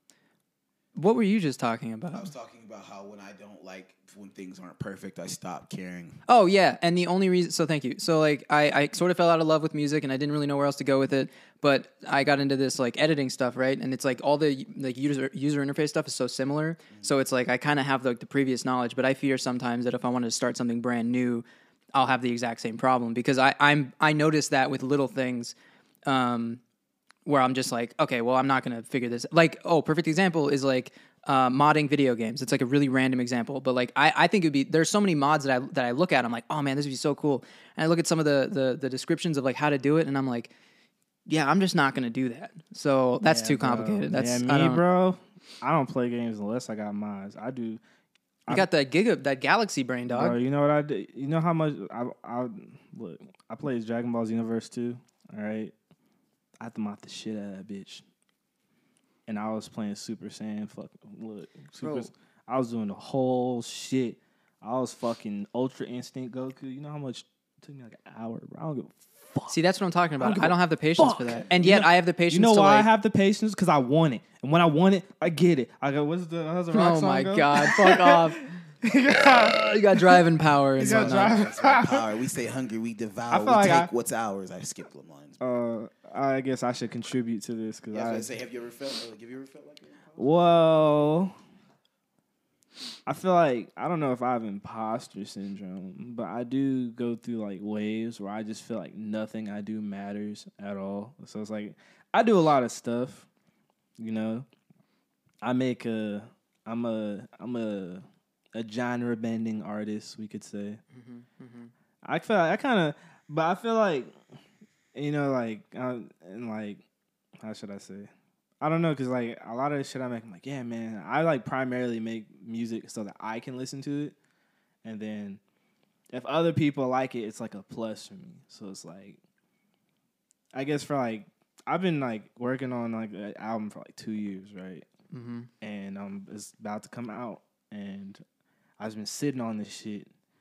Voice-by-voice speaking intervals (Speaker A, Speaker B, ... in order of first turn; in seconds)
Speaker A: 0.9-2.3, 6.3-25.6, 26.1-26.6, 27.3-40.5, 41.3-44.8, 48.5-50.4, 61.8-62.1, 69.5-72.9, 76.7-78.4, 79.3-81.4, 110.9-111.7, 135.1-135.5
Speaker B: 2.1-6.2, 16.9-17.1, 71.3-71.6, 80.8-85.4, 87.9-90.2
Speaker C: 43.2-47.8, 50.1-55.7, 56.6-58.0, 59.3-69.5, 70.2-80.3, 80.8-82.1, 83.3-83.9, 85.4-88.3, 90.2-91.3, 93.1-103.3, 104.0-104.5, 105.4-110.8, 112.0-114.1, 115.0-116.8, 117.4-118.1, 118.6-124.1, 124.8-125.4, 126.1-129.2, 130.5-134.9, 135.6-138.2, 138.8-140.1